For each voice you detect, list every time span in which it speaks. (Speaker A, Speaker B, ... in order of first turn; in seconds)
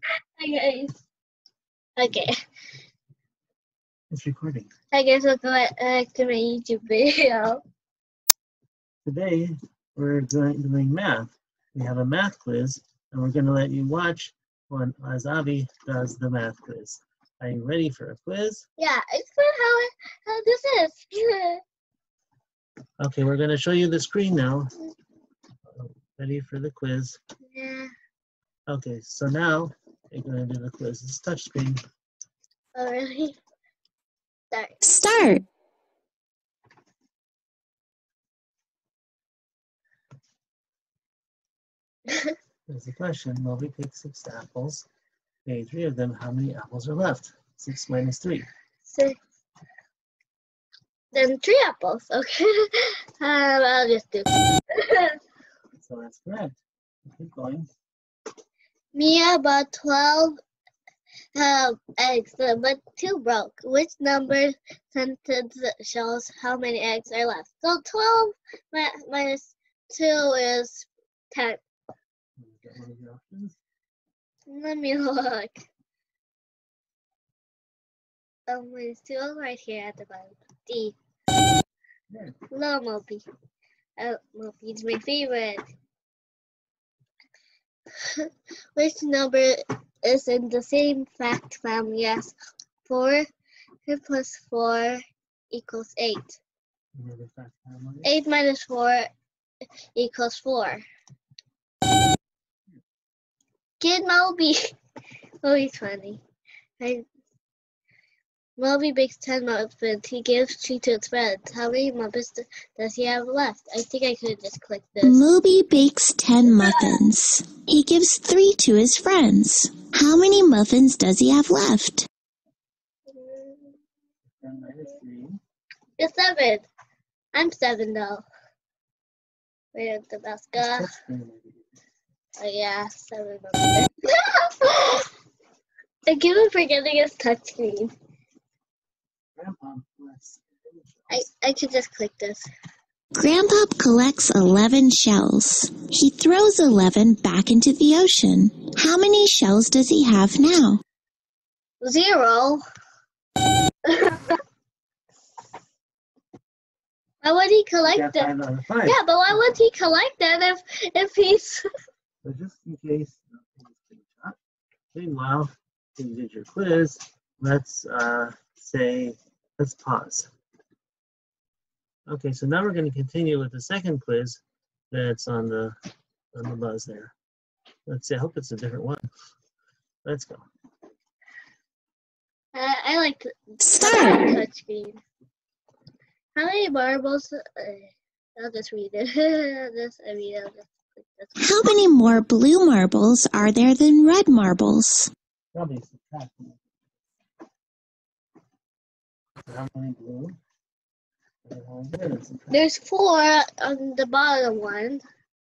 Speaker A: 0.4-1.0, 2.0-2.3, 4.9-7.6, 18.8-21.6, 27.5-27.9, 32.8-33.4, 34.5-34.8, 42.1-42.3, 48.8-49.2, 51.1-55.2, 58.9-60.4, 61.3-71.6, 74.5-75.7, 78.5-81.0, 82.5-83.2, 84.0-85.6, 88.0-92.3, 92.8-93.2, 93.8-96.4, 98.0-99.1, 99.9-100.8, 103.8-104.7, 105.4-106.2, 106.8-107.0, 108.6-115.2, 123.1-123.8, 126.0-126.6, 127.3-128.2, 129.7-130.9, 132.4-135.1, 136.1-137.9, 141.1-142.5, 151.8-152.6, 153.9-154.4, 157.2-158.3, 158.8-161.6, 182.5-185.0, 186.3-191.6, 202.5-205.0
Speaker B: 4.1-4.7, 9.0-18.6, 23.0-24.7, 25.7-27.2, 28.7-31.8, 42.7-44.9, 45.4-48.5, 55.7-57.7, 72.4-73.6, 82.1-82.4, 96.9-98.1, 124.4-125.4, 130.6-131.8, 139.3-141.3, 157.8-159.4, 162.2-164.4, 164.9-170.3, 172.1-175.8, 176.3-177.1, 177.9-179.1, 180.0-180.4, 195.5-196.6, 199.5-200.4, 201.4-202.6
Speaker C: 34.8-35.4, 115.0-122.1, 143.1-150.8, 183.6-184.4, 191.4-195.1